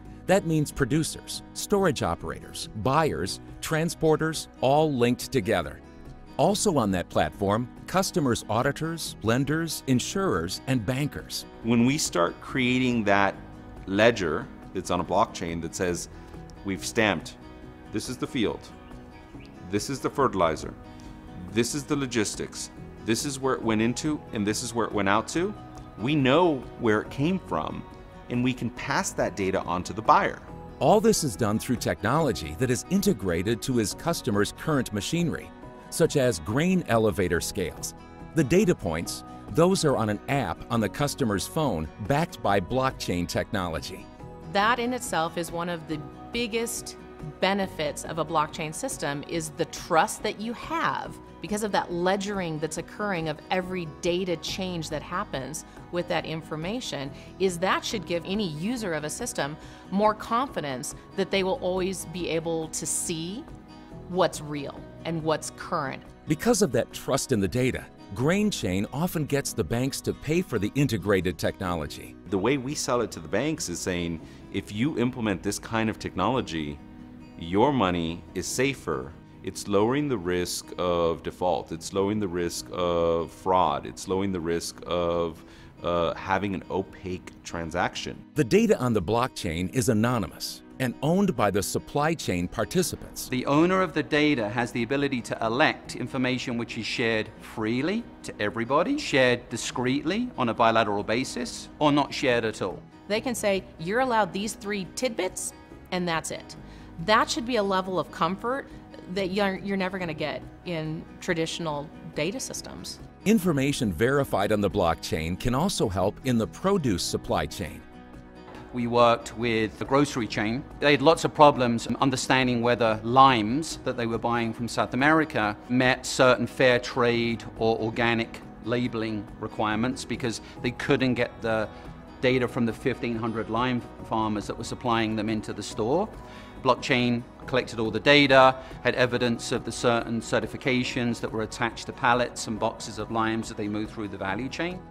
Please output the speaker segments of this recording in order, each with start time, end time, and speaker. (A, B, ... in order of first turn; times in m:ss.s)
0:00.3-0:05.8 A
0:06.4-0:11.5 A
0:11.6-0:16.1 B
0:16.6-0:17.4 B
0:17.9-0:18.7 B
0:19.6-0:20.8 B
0:21.4-0:30.5 B
0:30.8-0:44.1 A
0:44.5-1:03.4 C
1:04.1-1:06.1 C
1:06.3-1:12.1 A
1:12.3-1:16.8 B
1:17.4-1:28.2 B
1:28.4-1:33.3 A
1:33.3-1:42.8 D
1:43.1-1:53.0 C
1:53.2-1:57.8 A
1:58.7-2:24.8 D